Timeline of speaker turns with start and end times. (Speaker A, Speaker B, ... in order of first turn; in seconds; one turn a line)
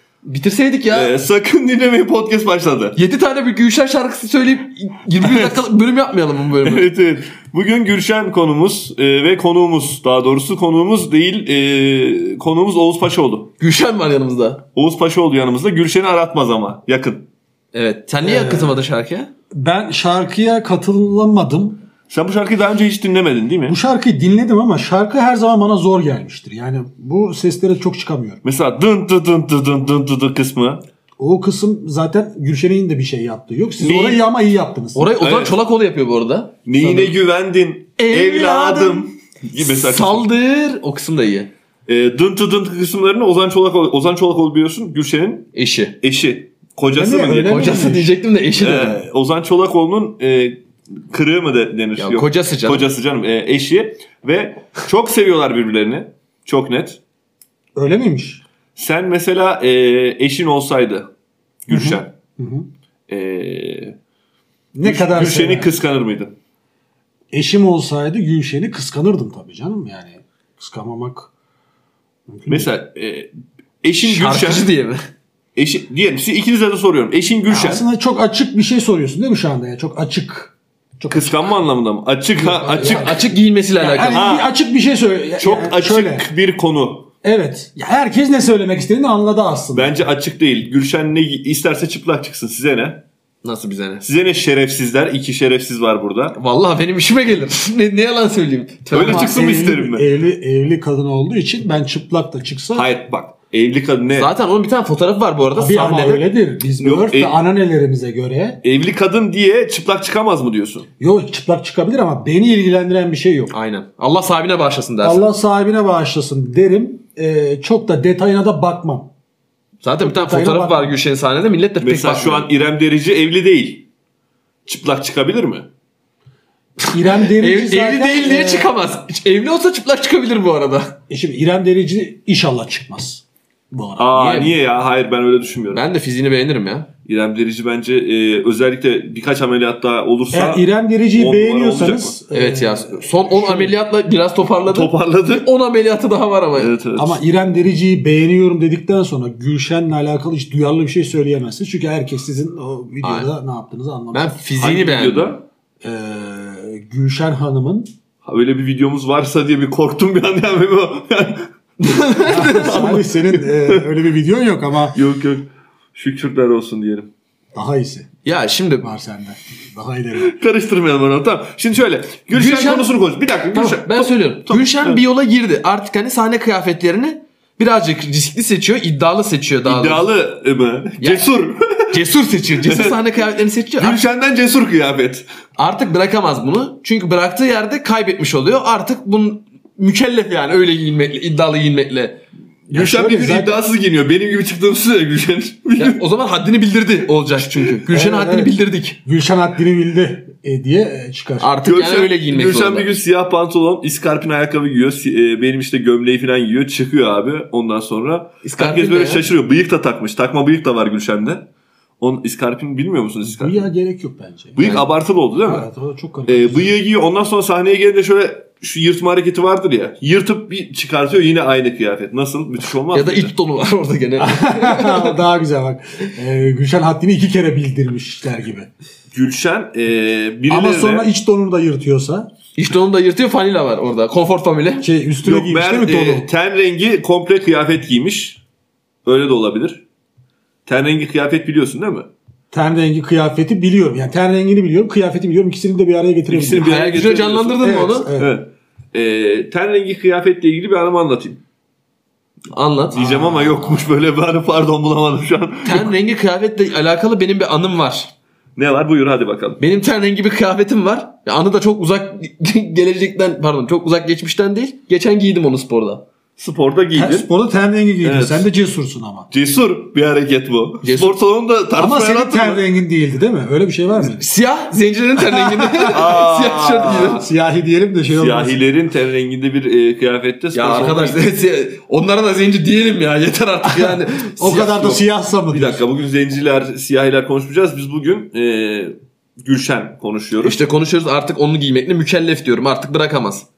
Speaker A: 0.2-1.1
Speaker B: 0.9-3.0
Speaker A: 3.0-6.9
Speaker B: 5.2-5.5
Speaker B: 6.6-13.5
Speaker A: 13.6-14.6
Speaker B: 14.8-17.3
Speaker A: 17.7-19.3
Speaker C: 18.2-18.8
Speaker C: 19.5-21.8
Speaker B: 22.1-23.8
Speaker C: 23.7-28.4
Speaker B: 28.4-30.8
Speaker C: 31.2-35.1
Speaker B: 33.8-34.2
Speaker A: 35.0-37.1
Speaker B: 35.2-35.6
Speaker B: 36.7-40.2
Speaker A: 38.0-41.5
Speaker B: 41.9-45.5
Speaker A: 45.5-46.0
Speaker B: 46.0-47.9
Speaker C: 46.9-48.1
Speaker A: 47.4-49.0
Speaker B: 48.6-57.0
Speaker A: 52.0-52.9
Speaker C: 57.8-58.4
Speaker B: 58.8-61.1
Speaker B: 61.7-62.1
Speaker C: 61.7-62.7
Speaker B: 63.1-64.0
Speaker C: 64.7-65.7
Speaker B: 64.8-66.3
Speaker C: 67.3-71.3
Speaker C: 72.3-72.7
Speaker B: 72.5-73.3
Speaker B: 73.8-74.7
Speaker A: 74.0-75.0
Speaker B: 75.6-77.8
Speaker C: 77.5-81.5
Speaker B: 81.1-83.3
Speaker C: 82.4-83.3
Speaker A: 82.7-84.2
Speaker C: 83.8-86.3
Speaker B: 84.0-84.5
Speaker B: 85.4-87.1
Speaker C: 87.2-90.0
Speaker B: 89.7-93.0
Speaker A: 93.4-94.0
Speaker B: 94.0-96.4
Speaker A: 96.3-99.5
Speaker B: 98.9-100.1
Speaker C: 99.0-102.9
Speaker B: 102.7-104.3
Speaker A: 104.1-106.3
Speaker C: 105.6-108.6
Speaker B: 106.8-107.3
Speaker B: 108.6-110.9
Speaker C: 111.0-113.5
Speaker A: 113.5-115.3
Speaker C: 115.0-119.1
Speaker A: 119.8-122.5
Speaker C: 120.0-120.9
Speaker B: 121.8-123.9
Speaker B: 124.7-125.7
Speaker C: 126.8-128.7
Speaker A: 127.2-131.0
Speaker C: 131.1-134.2
Speaker B: 134.0-135.8
Speaker A: 134.1-134.5
Speaker A: 135.7-136.9
Speaker B: 137.1-142.2
Speaker C: 140.3-143.7
Speaker A: 142.3-146.8
Speaker B: 144.7-145.5
Speaker B: 146.6-147.2
Speaker C: 147.0-154.4
Speaker A: 153.0-153.3
Speaker A: 154.1-155.4
Speaker B: 154.6-155.4
Speaker C: 155.8-157.9
Speaker B: 158.2-161.5
Speaker A: 161.8-163.0
Speaker C: 162.3-165.0
Speaker B: 162.4-163.8
Speaker B: 164.9-167.1
Speaker C: 167.5-168.1
Speaker A: 168.2-168.9
Speaker C: 168.8-170.3
Speaker B: 170.2-175.0
Speaker A: 172.3-172.9
Speaker A: 173.5-180.1
Speaker B: 179.7-182.1
Speaker A: 181.0-181.3
Speaker A: 181.9-184.0
Speaker B: 182.6-183.0
Speaker B: 183.8-185.3
Speaker A: 185.6-192.2
Speaker B: 192.7-196.0
Speaker C: 192.7-193.6
Speaker A: 195.8-199.0
Speaker C: 197.9-201.5
Speaker A: 201.4-202.9
Speaker B: 201.6-211.5
Speaker A: 208.4-209.3
Speaker B: 212.0-213.7
Speaker C: 213.2-214.6
Speaker B: 214.6-215.7
Speaker A: 214.6-214.9
Speaker C: 215.4-216.7
Speaker B: 216.3-223.3
Speaker A: 222.9-225.2
Speaker C: 224.2-228.7
Speaker B: 229.1-231.1
Speaker C: 230.5-232.3
Speaker A: 232.6-234.9
Speaker C: 234.8-236.3
Speaker B: 235.2-238.4
Speaker B: 239.1-239.8
Speaker B: 240.7-242.1
Speaker C: 242.5-246.7
Speaker B: 246.3-251.4
Speaker A: 246.6-248.1
Speaker C: 247.6-248.4
Speaker A: 252.5-253.9
Speaker B: 252.9-255.9
Speaker A: 255.7-258.1
Speaker B: 258.6-259.6
Speaker A: 259.6-266.1
Speaker B: 266.4-267.3
Speaker C: 266.9-269.3
Speaker B: 268.0-268.5
Speaker B: 269.3-272.6
Speaker A: 270.8-271.2
Speaker C: 271.8-274.2
Speaker A: 274.0-277.2
Speaker C: 275.3-276.0
Speaker B: 275.9-277.2
Speaker C: 277.2-278.6
Speaker B: 278.1-281.2
Speaker A: 280.5-285.0
Speaker C: 283.7-285.8
Speaker B: 285.5-290.6
Speaker A: 290.4-293.5